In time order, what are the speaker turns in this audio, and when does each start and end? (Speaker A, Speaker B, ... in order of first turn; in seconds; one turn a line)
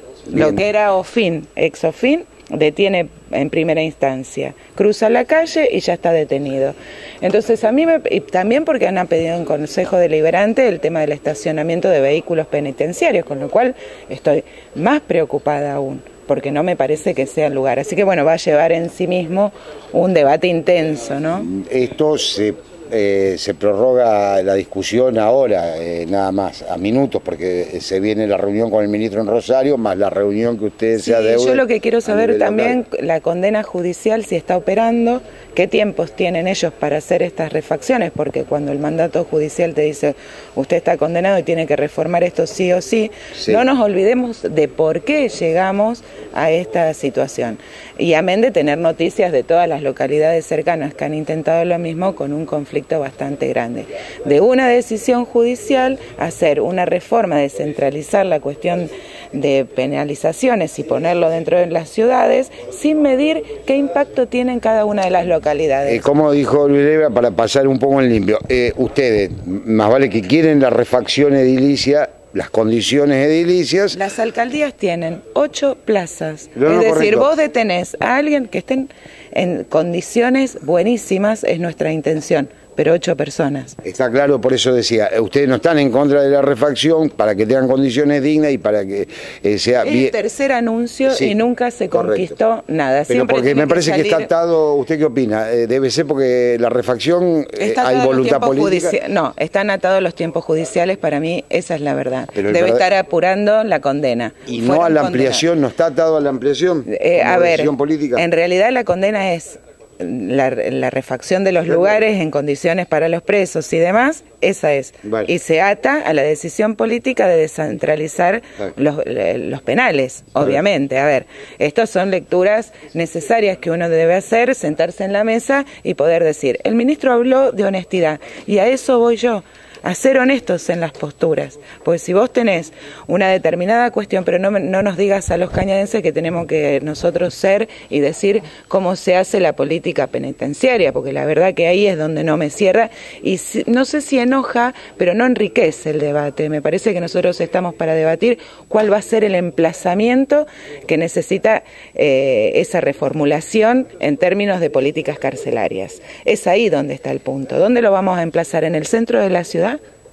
Speaker A: 0.3-21.5
Speaker B: 0.3-0.6
Speaker B: 21.4-32.8
Speaker A: 30.9-66.1
Speaker B: 43.3-43.6
Speaker B: 65.8-74.0
Speaker A: 73.9-83.8
Speaker B: 76.5-77.3
Speaker B: 83.8-90.1
Speaker A: 89.8-94.3
Speaker B: 91.0-91.3
Speaker B: 91.9-92.3
Speaker B: 93.1-99.0
Speaker A: 97.6-105.5
Speaker B: 102.3-102.8
Speaker B: 104.5-108.2
Speaker A: 106.8-159.8